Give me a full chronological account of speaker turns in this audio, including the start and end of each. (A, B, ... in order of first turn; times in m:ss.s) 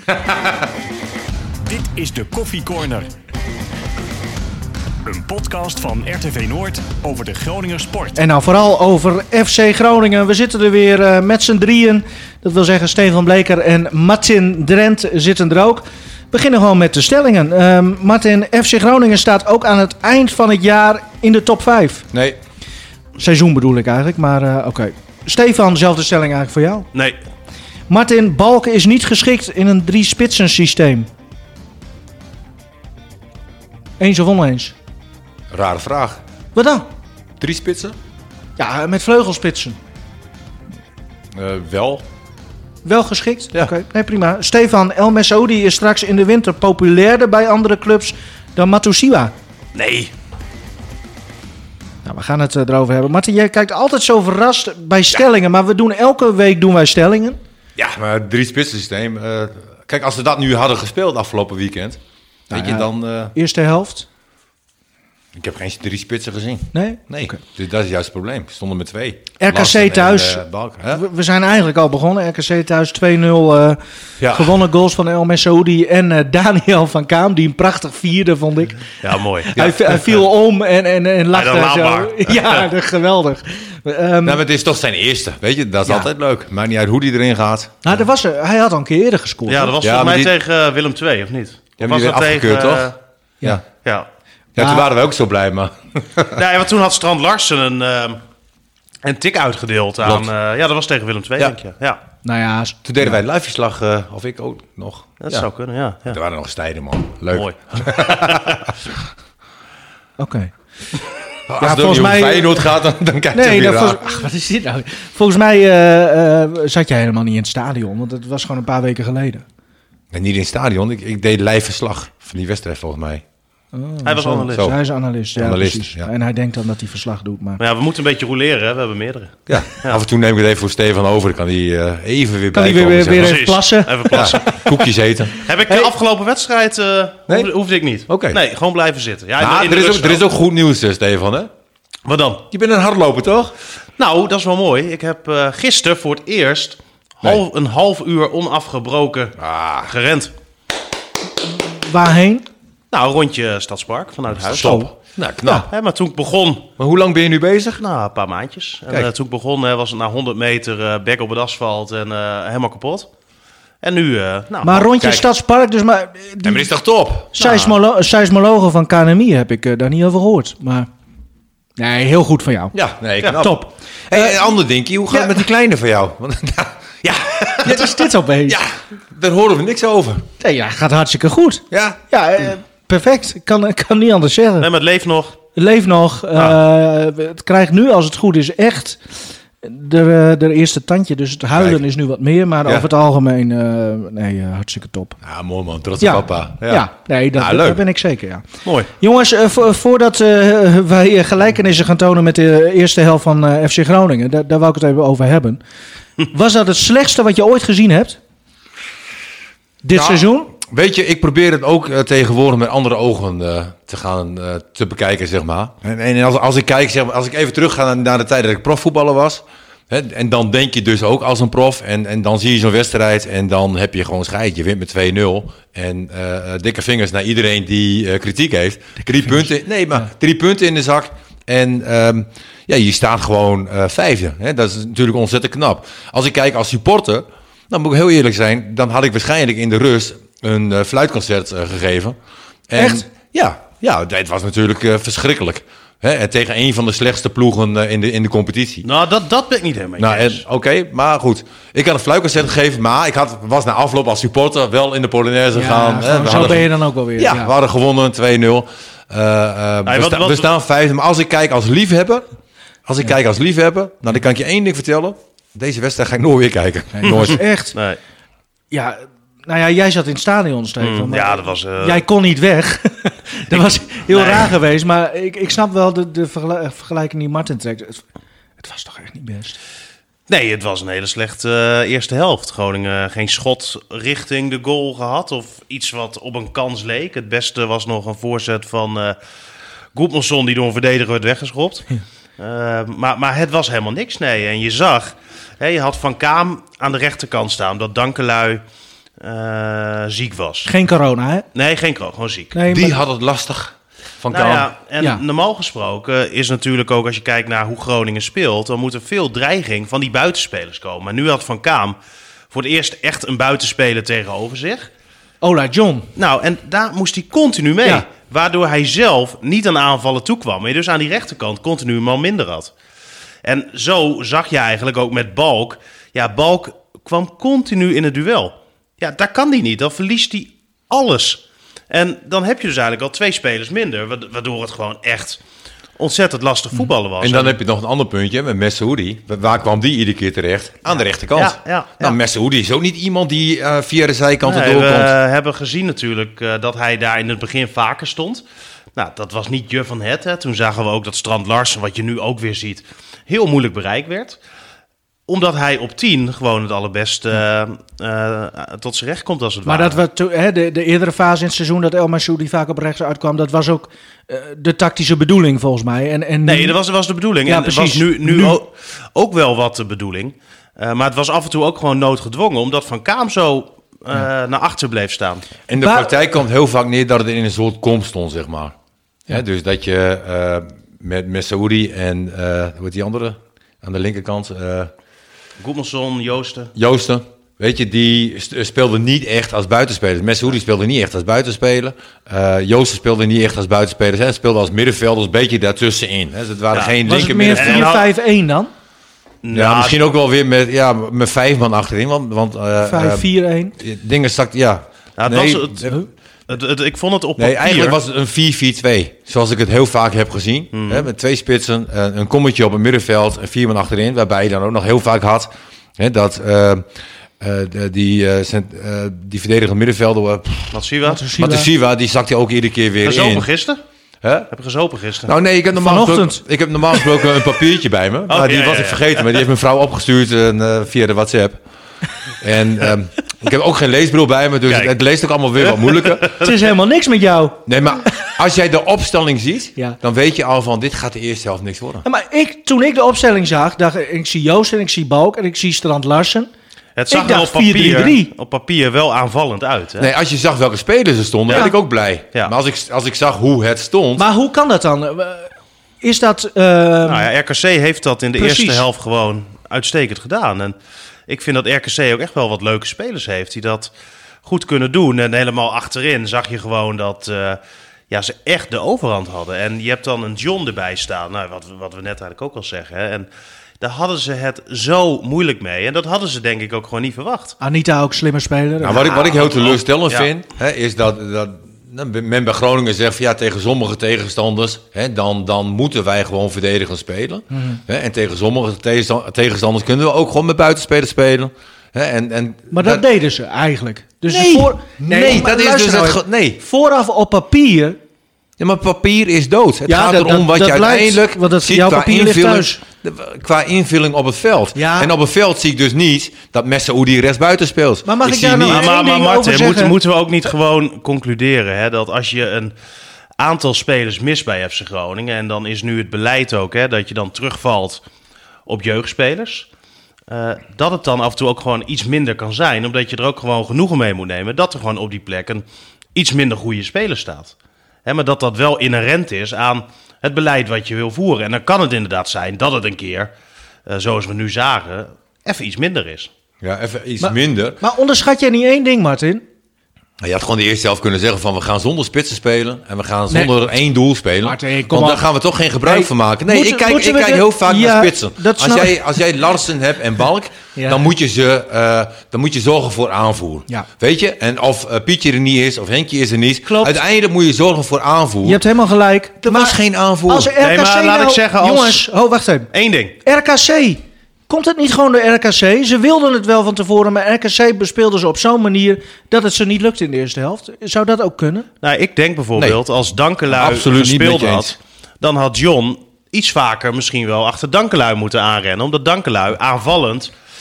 0:00.2-0:00.6 A
0:01.6-0:03.1 B
0:05.0-0:08.2 B
0:08.2-0:22.1 C
0:23.2-0:26.9 C
0:27.9-0:31.1 C
0:34.0-0:34.8 C
0:35.5-0:36.2 A
0:36.6-0:36.9 C
0:37.4-0:38.0 A
0:38.6-0:39.8 C
0:41.3-0:42.0 A
0:42.8-0:49.3 C
0:49.8-0:50.1 D
0:52.0-0:57.4 C
0:57.8-1:02.0 A
1:02.5-1:03.4 A
1:02.5-1:04.1 C
1:05.4-1:11.0 A
1:06.7-1:07.4 C
1:09.4-1:18.9 C
1:14.2-1:14.6 A
1:18.9-1:19.6 D
1:19.5-1:24.4 C
1:19.6-1:19.9 A
1:21.3-1:22.7 D
1:24.2-1:28.0 A
1:27.8-1:29.8 C
1:29.5-1:33.0 D
1:29.8-1:30.3 A
1:31.8-1:32.9 A
1:34.6-1:36.4 A
1:34.6-1:34.9 C
1:36.4-1:38.2 D
1:39.0-1:42.0 D
1:40.0-1:40.3 A
1:42.2-1:43.2 C
1:42.8-1:45.5 A
1:45.2-1:46.2 D
1:46.1-1:49.0 A
1:47.3-1:48.6 D
1:50.2-1:50.5 C
1:51.5-1:54.0 A
1:51.6-1:52.7 C
1:53.3-1:59.4 C
2:00.1-2:03.2 A
2:03.7-2:07.6 C
2:04.0-2:04.7 D
2:05.4-2:06.1 A
2:07.6-2:10.0 D
2:09.5-2:13.4 A
2:12.5-2:14.6 C
2:13.1-2:14.8 D
2:14.1-2:15.4 A
2:15.4-2:20.2 D
2:15.7-2:15.9 C
2:18.1-2:18.4 A
2:19.4-2:21.5 A
2:22.0-2:22.4 D
2:22.5-2:23.5 A
2:24.0-2:30.3 D
2:29.4-2:29.9 A
2:31.5-2:32.5 C
2:32.9-2:34.9 D
2:34.4-2:35.7 A
2:34.6-2:34.9 C
2:35.6-2:36.7 D
2:36.8-2:37.8 A
2:37.8-2:43.1 D
2:43.8-2:45.2 D
2:44.6-2:46.7 C
2:45.0-2:45.3 A
2:46.4-2:47.3 A
2:47.3-2:50.9 C
2:47.4-2:47.8 D
2:51.8-2:54.4 C
2:52.7-3:00.3 A
2:55.1-2:55.4 C
2:57.6-2:58.6 C
3:00.4-3:04.7 C
3:01.7-3:02.0 A
3:04.6-3:05.4 D
3:05.6-3:09.0 C
3:09.6-3:15.2 C
3:11.6-3:11.8 A
3:15.2-3:17.8 A
3:16.0-3:25.6 C
3:26.3-3:28.2 C
3:29.8-3:30.5 C
3:29.9-4:02.2 A
3:49.2-3:49.5 C
4:02.7-4:08.9 A
4:02.8-4:03.1 C
4:08.8-4:10.4 D
4:10.0-4:22.3 A
4:15.5-4:17.5 C
4:19.8-4:20.5 D
4:22.9-4:27.4 A
4:27.0-4:27.8 C
4:27.7-4:28.0 D
4:28.7-4:38.0 C
4:30.8-4:32.0 D
4:34.1-4:34.5 D
4:38.6-4:39.6 C
4:40.3-4:49.2 D
4:50.0-4:58.6 D
4:59.2-5:00.7 D
5:00.6-5:01.4 C
5:01.6-5:02.5 D
5:02.5-5:03.0 C
5:02.7-5:04.7 A
5:04.3-5:12.0 D
5:12.5-5:14.9 D
5:15.4-5:16.1 C
5:16.2-5:22.7 D
5:23.4-5:35.4 D
5:36.0-5:37.6 D
5:37.2-5:45.1 A
5:40.9-5:42.2 D
5:44.4-5:48.4 D
5:49.0-5:54.4 D
5:55.3-6:00.0 D
5:59.7-6:06.8 C
6:06.5-6:15.5 D
6:07.5-6:08.6 C
6:15.7-6:18.8 A
6:15.7-6:16.2 C
6:19.3-6:24.9 A
6:25.6-6:26.7 D
6:26.8-6:38.0 A
6:36.7-6:38.1 D
6:37.0-6:38.7 C
6:39.4-6:40.0 D
6:39.5-6:46.0 A
6:42.8-6:43.8 C
6:45.2-6:46.0 D
6:46.5-6:48.0 D
6:47.4-6:56.8 A
6:50.7-6:51.1 D
6:57.4-7:00.8 A
7:00.7-7:01.3 D
7:01.0-7:01.7 C
7:01.4-7:03.5 A
7:03.0-7:03.8 D
7:04.2-7:04.5 A
7:04.5-7:05.3 D
7:05.3-7:11.6 A
7:05.8-7:06.4 C
7:08.3-7:09.4 D
7:12.4-7:16.4 A
7:14.7-7:14.9 D
7:15.6-7:16.6 D
7:16.4-7:17.6 C
7:17.7-7:22.0 A
7:22.0-7:26.5 C
7:27.0-7:30.1 D
7:27.1-7:28.3 C
7:30.0-7:34.3 A
7:31.5-7:31.7 D
7:34.2-7:37.3 C
7:37.0-7:40.8 D
7:38.4-7:38.8 C
7:41.3-7:43.9 D
7:44.4-7:47.6 D
7:48.1-7:53.3 D
7:53.8-7:57.6 D
7:57.6-7:59.1 C
7:58.8-8:13.0 A
7:58.8-8:00.3 D
8:07.5-8:07.8 C
8:12.7-8:18.0 C
8:14.3-8:16.6 A
8:18.6-8:28.9 A
8:19.9-8:22.8 C
8:24.8-8:25.1 C
8:28.1-8:30.0 C
8:28.7-8:32.7 D
8:33.4-8:38.0 D
8:38.7-8:39.7 D
8:40.3-8:47.5 D
8:48.0-8:53.3 D
8:53.9-8:56.3 D
8:56.6-8:57.8 A
8:57.2-8:59.4 C
9:00.2-9:18.6 A
9:03.3-9:03.6 C
9:04.4-9:05.3 C
9:05.8-9:09.0 C
9:10.8-9:11.1 C
9:16.6-9:17.0 C
9:18.4-9:22.7 C
9:19.4-9:20.5 A
9:20.6-9:22.0 D
9:22.7-9:23.2 D
9:23.2-9:31.7 C
9:31.8-9:40.3 D
9:33.5-9:34.8 A